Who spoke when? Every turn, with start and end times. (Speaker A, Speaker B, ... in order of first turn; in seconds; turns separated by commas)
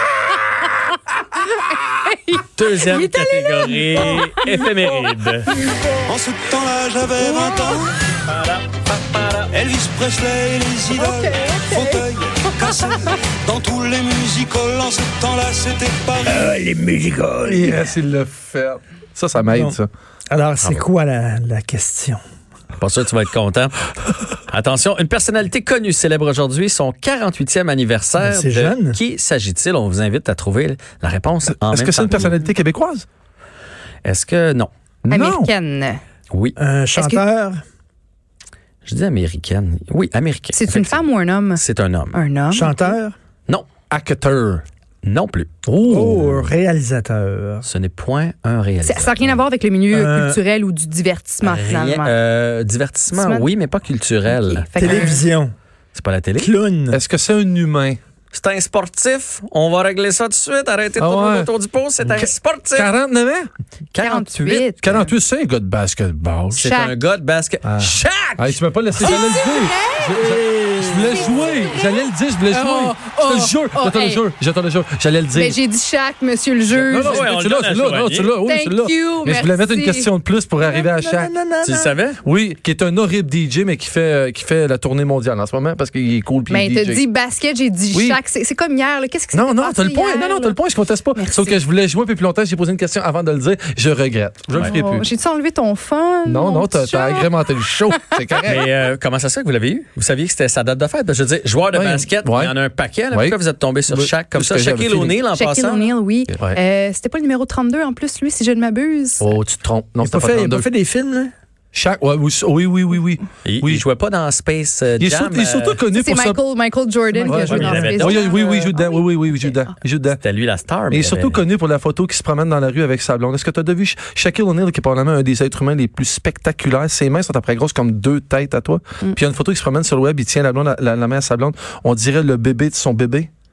Speaker A: 2.0-5.2, Speaker B: 2.5-5.5, Speaker C: 6.0-8.0, Speaker A: 7.2-7.8, Speaker B: 8.2-9.5, Speaker C: 9.5-16.5, Speaker A: 10.9-11.9, Speaker D: 16.2-17.9, Speaker E: 17.4-19.9, Speaker D: 19.5-19.8, Speaker D: 20.3-22.2, Speaker B: 22.8-23.8, Speaker B: 24.5-32.4, Speaker D: 28.2-29.0, Speaker E: 31.5-33.0, Speaker B: 34.0-34.7, Speaker E: 35.0-35.5, Speaker A: 35.1-36.0, Speaker B: 36.3-36.5, Speaker D: 36.6-37.6, Speaker A: 36.9-37.2, Speaker B: 38.9-42.2, Speaker A: 40.5-41.6, Speaker A: 42.1-42.9, Speaker D: 42.5-43.1, Speaker E: 43.9-44.6, Speaker B: 45.0-45.5, Speaker E: 45.6-46.5, Speaker D: 45.8-47.6, Speaker B: 47.6-49.4, Speaker A: 48.8-52.1, Speaker D: 49.9-50.4, Speaker B: 51.4-55.1, Speaker A: 53.1-53.5, Speaker A: 54.4-55.2, Speaker D: 54.8-55.5, Speaker B: 55.9-56.5, Speaker D: 56.4-57.0, Speaker E: 56.9-58.0, Speaker B: 58.3-62.9, Speaker E: 61.0-61.5, Speaker E: 62.0-63.5, Speaker B: 63.9-64.7, Speaker A: 64.0-65.1, Speaker E: 64.8-66.6, Speaker B: 66.5-68.5, Speaker A: 66.6-66.9, Speaker E: 67.6-75.6, Speaker A: 69.0-71.9, Speaker A: 72.5-74.2, Speaker B: 72.5-72.9, Speaker A: 75.3-77.3, Speaker E: 76.7-81.3, Speaker B: 76.9-78.3, Speaker A: 78.4-80.1, Speaker D: 80.6-81.9, Speaker B: 81.6-82.2, Speaker E: 82.2-87.0, Speaker A: 86.5-90.6, Speaker E: 87.9-88.2, Speaker E: 89.3-95.0, Speaker A: 91.2-91.6, Speaker A: 94.6-97.3, Speaker E: 96.2-98.7, Speaker A: 97.9-98.2, Speaker B: 98.4-105.9, Speaker E: 101.7-102.5, Speaker E: 103.1-103.4, Speaker E: 103.9-105.2, Speaker A: 105.3-109.2, Speaker E: 109.2-110.7, Speaker D: 110.0-111.3, Speaker E: 111.7-113.8, Speaker B: 113.4-115.8, Speaker E: 115.0-116.4, Speaker A: 115.9-119.5, Speaker D: 117.1-118.0, Speaker E: 117.2-120.2, Speaker B: 117.5-118.5, Speaker B: 120.1-121.4, Speaker E: 120.9-133.3